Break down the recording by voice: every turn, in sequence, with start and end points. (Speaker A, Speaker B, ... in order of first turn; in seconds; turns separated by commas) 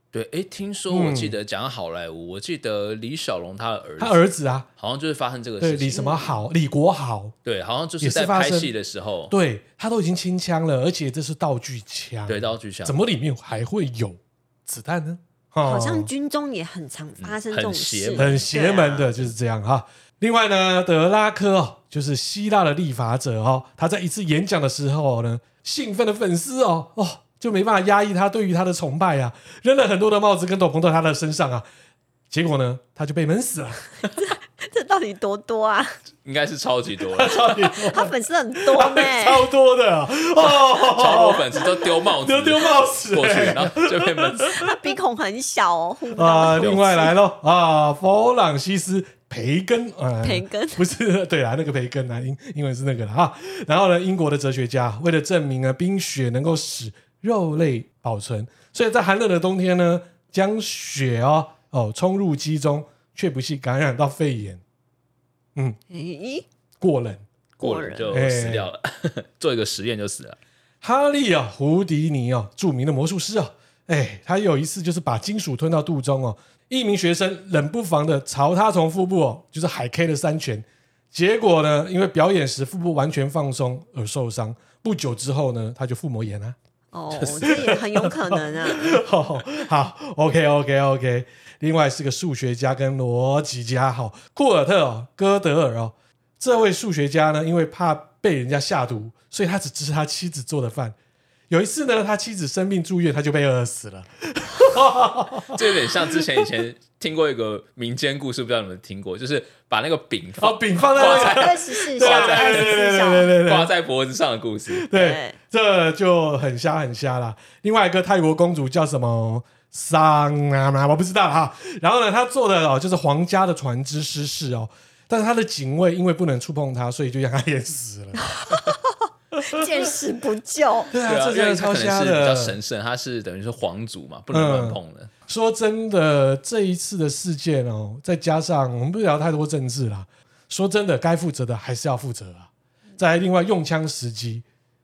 Speaker A: 0.1-4.2, Speaker B: 0.9-1.4, Speaker B: 4.0-4.7, Speaker A: 4.8-6.3, Speaker B: 5.6-7.3, Speaker A: 7.5-9.3, Speaker B: 8.0-8.7, Speaker B: 9.3-16.1, Speaker A: 12.3-13.0, Speaker C: 15.6-19.2, Speaker A: 17.2-18.4, Speaker B: 18.2-31.7, Speaker B: 32.3-33.8, Speaker C: 34.2-36.0, Speaker A: 36.2-37.5, Speaker B: 37.2-38.1, Speaker C: 37.4-39.5, Speaker B: 38.7-44.7, Speaker A: 40.8-44.5, Speaker C: 44.5-47.1, Speaker B: 46.2-64.6, Speaker A: 46.6-46.9, Speaker C: 50.2-50.9, Speaker C: 65.9-66.5, Speaker B: 66.8-67.2, Speaker A: 67.6-70.4, Speaker C: 67.6-68.1, Speaker B: 68.1-68.7, Speaker B: 70.8-86.6, Speaker C: 86.9-89.0, Speaker A: 87.2-87.8, Speaker B: 87.4-101.0, Speaker B: 101.5-105.7, Speaker A: 105.5-114.9, Speaker B: 110.4-113.7, Speaker C: 111.0-113.4, Speaker B: 114.7-128.6, Speaker C: 114.9-115.4, Speaker C: 128.2-130.9, Speaker B: 129.4-129.9, Speaker B: 130.9-132.6, Speaker A: 131.1-135.1, Speaker B: 134.3-144.4